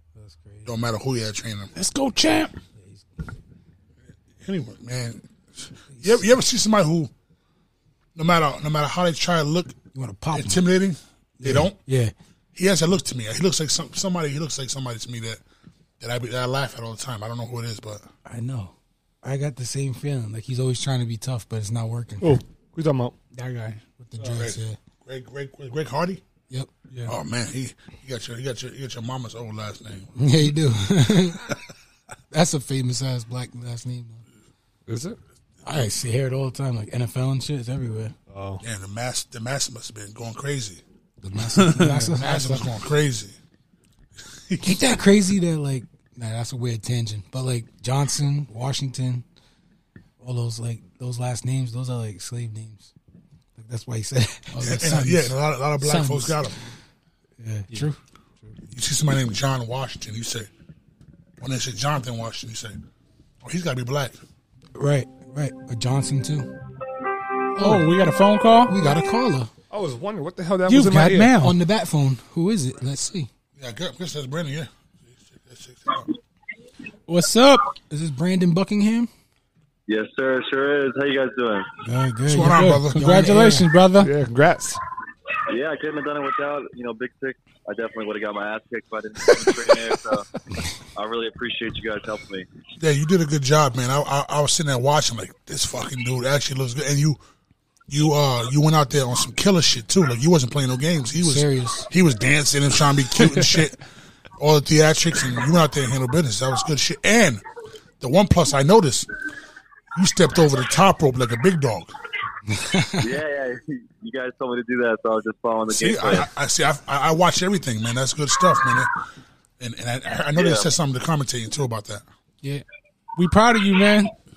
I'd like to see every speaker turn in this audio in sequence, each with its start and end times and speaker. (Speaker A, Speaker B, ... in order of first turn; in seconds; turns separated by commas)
Speaker A: 0.1-0.7, Speaker B: 0.6-1.7, Speaker C: 1.7-2.5, Speaker A: 2.8-3.1, Speaker B: 4.4-7.1, Speaker B: 8.1-9.8, Speaker A: 9.9-10.6, Speaker B: 10.3-11.8, Speaker A: 11.4-12.1, Speaker B: 12.5-15.4, Speaker B: 16.0-18.1, Speaker A: 18.2-22.4, Speaker D: 22.2-23.1, Speaker C: 23.3-23.9, Speaker A: 24.0-24.8, Speaker B: 24.2-26.2, Speaker B: 27.1-30.1, Speaker A: 30.2-31.5, Speaker A: 32.3-34.2, Speaker D: 34.9-35.2, Speaker A: 35.6-38.1, Speaker D: 38.3-38.6, Speaker B: 38.6-40.8, Speaker A: 41.2-42.6, Speaker C: 41.6-42.1, Speaker B: 42.1-43.4, Speaker B: 44.5-44.9, Speaker A: 44.6-49.2, Speaker A: 50.2-52.9, Speaker A: 53.5-56.4, Speaker C: 54.5-55.1, Speaker B: 54.6-56.6, Speaker A: 57.4-58.0, Speaker B: 58.7-60.5, Speaker B: 61.4-62.8, Speaker B: 63.4-64.2, Speaker A: 64.7-66.5, Speaker A: 67.5-67.9, Speaker C: 67.6-68.8, Speaker A: 68.7-69.5, Speaker D: 69.7-71.3, Speaker C: 70.7-71.6, Speaker A: 71.4-73.3, Speaker B: 73.6-76.1, Speaker C: 77.1-77.7, Speaker A: 77.9-79.1, Speaker E: 79.9-81.7, Speaker A: 81.8-83.7, Speaker B: 82.3-83.3, Speaker C: 82.4-84.1, Speaker D: 84.0-84.8, Speaker E: 85.5-90.2, Speaker E: 90.9-92.5, Speaker B: 92.8-97.2, Speaker B: 97.9-103.8, Speaker A: 101.2-101.9, Speaker B: 104.4-107.4, Speaker B: 108.0-109.1, Speaker B: 109.9-111.9, Speaker A: 112.5-113.0, Speaker E: 113.0-116.2, Speaker B: 115.7-119.0, Speaker B: 119.6-122.0, Speaker E: 120.3-120.7, Speaker C: 123.2-124.1